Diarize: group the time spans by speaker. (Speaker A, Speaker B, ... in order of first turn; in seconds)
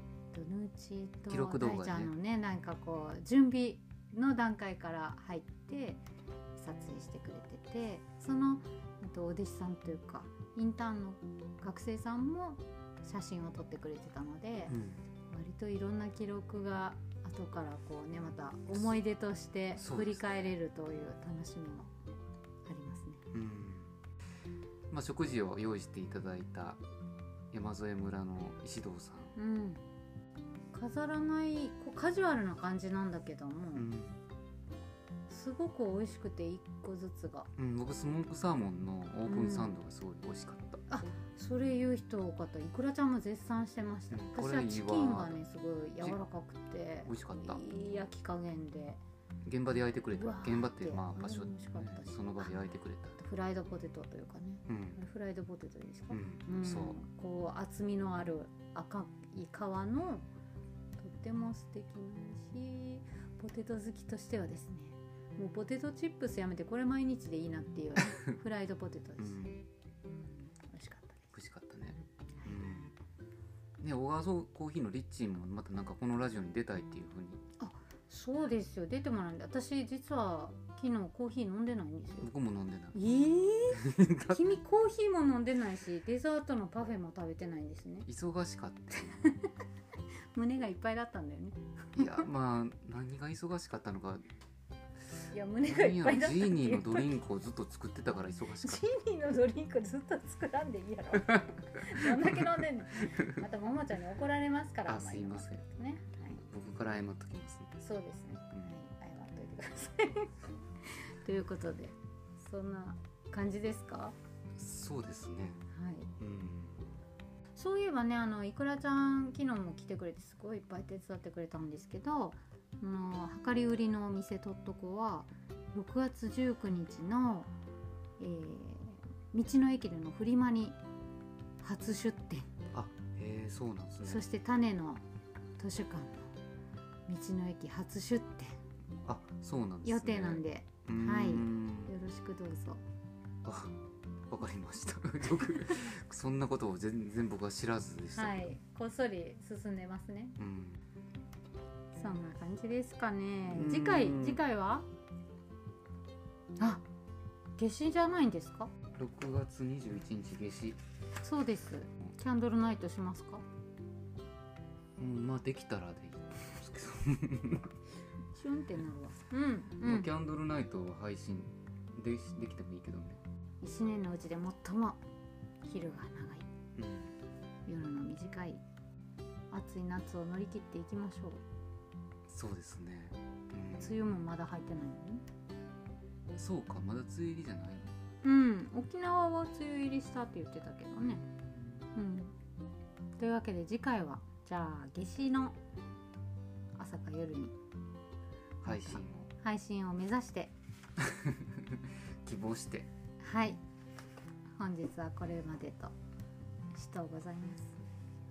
Speaker A: 0.3-6.0, 6.6-14.8, 15.3-21.9, 22.6-23.2, 29.4-29.8, 30.7-33.9, 35.3-37.5, 39.3-39.7, 40.9-49.0, 50.1-52.5, 53.2-60.3, 61.0-69.4, 70.1-71.3, 77.6-82.3, 82.9-88.1, 89.2-89.5, 90.3-92.3, 95.3-97.1, 98.6-106.4, 107.8-114.2, 115.7-116.1, 117.6-127.5, 128.2-130.8, 131.6-132.5, 134.0-135.0, 135.6-136.3, 137.1-138.6, 139.8-142.8, 148.1-150.4, 151.9-154.9, 156.6-156.8, 157.6-158.7, 161.2-163.4, 168.3-170.1, 173.6-175.0, 175.6-176.5, 177.7-178.6, 179.5-181.4, 183.8-185.2, 188.2-191.2, 191.9-192.3, 193.2-195.6, 196.8-197.6, 198.7-200.5, 203.2-203.6, 204.6-205.9, 206.7-207.8
Speaker B: 1.3-2.1, 14.7-15.0, 19.8-20.5, 23.3-23.9, 24.9-26.8, 27.5-29.4, 33.8-34.2, 37.6-40.8, 44.1-45.4, 47.1-47.6, 49.5-53.2, 54.7-55.0, 56.1-57.0, 69.2-69.6, 71.3-72.9, 73.8-77.4, 82.2-83.0, 83.7-84.4, 88.1-89.3, 92.0-94.2, 95.7-98.9, 101.3-103.3, 104.9-105.6, 106.4-107.8, 114.6-115.6, 116.2-116.9, 132.7-134.2, 139.1-141.9, 143.4-148.5, 150.4-150.8, 153.5-154.4, 158.9-160.8, 165.0-167.8, 169.8-173.2, 176.8-177.1, 182.3-184.0, 186.3-187.9, 191.0-191.9, 198.6-199.3, 201.0-202.9